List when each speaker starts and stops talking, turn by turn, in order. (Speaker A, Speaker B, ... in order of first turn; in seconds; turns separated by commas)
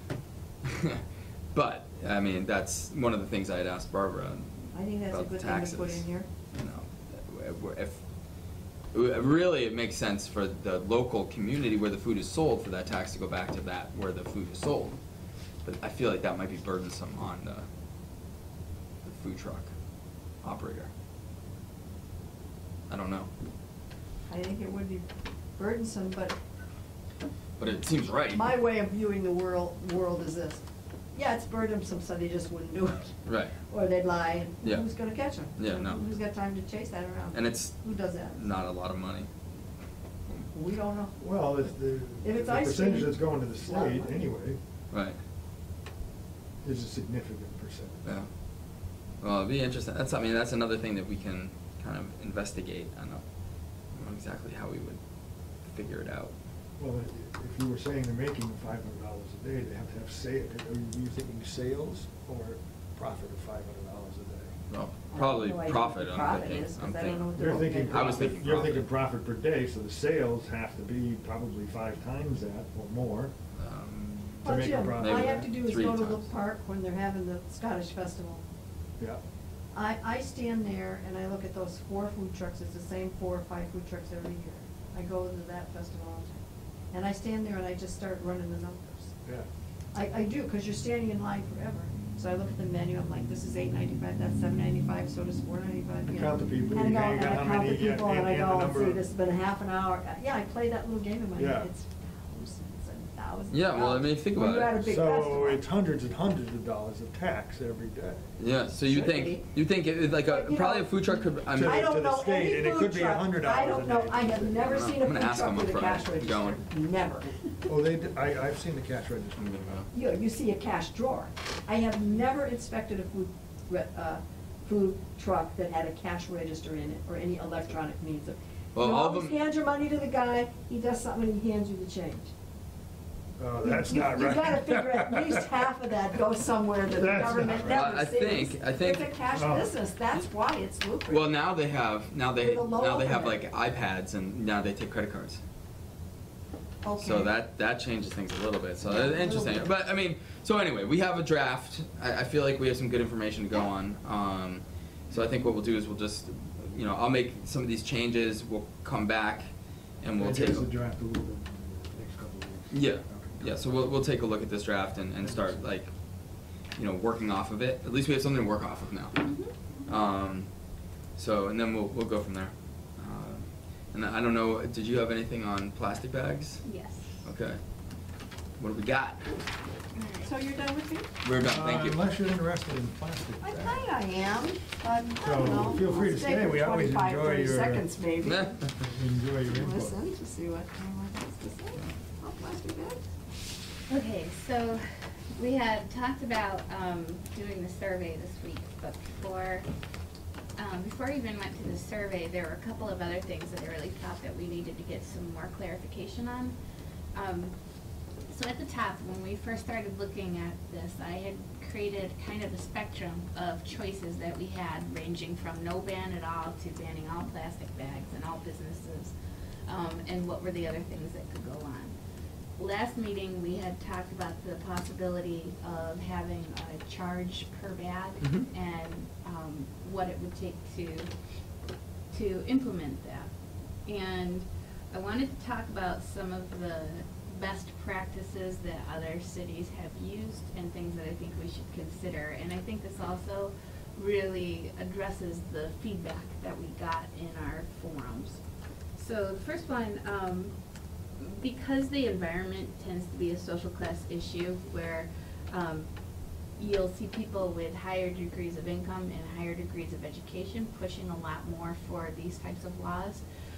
Speaker A: 0.6-1.0, Speaker A: 1.5-8.0, Speaker B: 4.7-6.3, Speaker A: 8.9-15.0, Speaker A: 15.6-17.6, Speaker A: 19.0-19.7, Speaker A: 20.4-20.9, Speaker A: 22.9-23.3, Speaker B: 24.3-26.4, Speaker A: 27.6-28.4, Speaker B: 28.3-30.6, Speaker B: 31.1-38.5, Speaker A: 33.2-33.5, Speaker A: 35.5-36.0, Speaker A: 37.3-37.8, Speaker A: 38.4-39.3, Speaker B: 40.5-41.2, Speaker C: 41.2-44.6, Speaker B: 42.2-44.3, Speaker A: 44.9-45.2, Speaker C: 46.6-48.0, Speaker A: 49.2-53.2, Speaker A: 53.9-55.0, Speaker A: 55.6-56.3, Speaker C: 56.8-64.5, Speaker A: 64.7-68.9, Speaker B: 65.1-68.4, Speaker C: 67.4-73.3, Speaker A: 73.5-76.3, Speaker B: 74.4-78.4, Speaker C: 74.4-75.5, Speaker B: 79.7-89.1, Speaker B: 89.9-105.6, Speaker C: 96.1-99.0, Speaker C: 101.3-101.7, Speaker A: 103.5-104.8, Speaker C: 104.8-108.3, Speaker A: 108.4-111.8, Speaker B: 108.8-109.4, Speaker B: 110.2-117.3, Speaker C: 111.5-114.7, Speaker A: 114.6-116.6, Speaker C: 117.7-119.8, Speaker A: 119.4-119.9, Speaker B: 119.9-132.3, Speaker A: 128.7-129.3, Speaker C: 133.4-135.4, Speaker B: 133.6-141.2, Speaker C: 137.0-137.8, Speaker A: 137.6-139.1, Speaker C: 139.3-139.7, Speaker A: 141.1-145.4, Speaker B: 142.4-143.4, Speaker B: 146.8-147.3, Speaker A: 147.0-159.5, Speaker B: 148.8-149.7, Speaker A: 160.0-160.7, Speaker C: 160.2-163.5, Speaker A: 162.7-165.9, Speaker C: 165.2-165.6, Speaker A: 166.8-169.2, Speaker D: 169.2-169.5, Speaker A: 169.9-170.5, Speaker A: 171.2-176.6, Speaker D: 176.6-177.2, Speaker A: 177.2-177.6, Speaker A: 178.6-179.4, Speaker D: 179.9-180.3, Speaker B: 180.2-181.1, Speaker A: 181.2-182.0, Speaker C: 181.4-183.8, Speaker B: 183.4-188.6, Speaker C: 185.2-187.8, Speaker A: 188.2-188.8, Speaker C: 188.8-190.0, Speaker B: 189.4-193.0, Speaker D: 193.9-194.8, Speaker D: 195.3-199.7, Speaker D: 200.6-206.6, Speaker D: 207.1-207.5, Speaker D: 208.3-219.1, Speaker D: 219.7-221.9, Speaker D: 222.6-231.1, Speaker A: 228.2-228.5, Speaker D: 232.1-233.3, Speaker D: 233.8-248.4, Speaker D: 248.9-250.5, Speaker D: 251.2-255.9, Speaker D: 256.6-263.2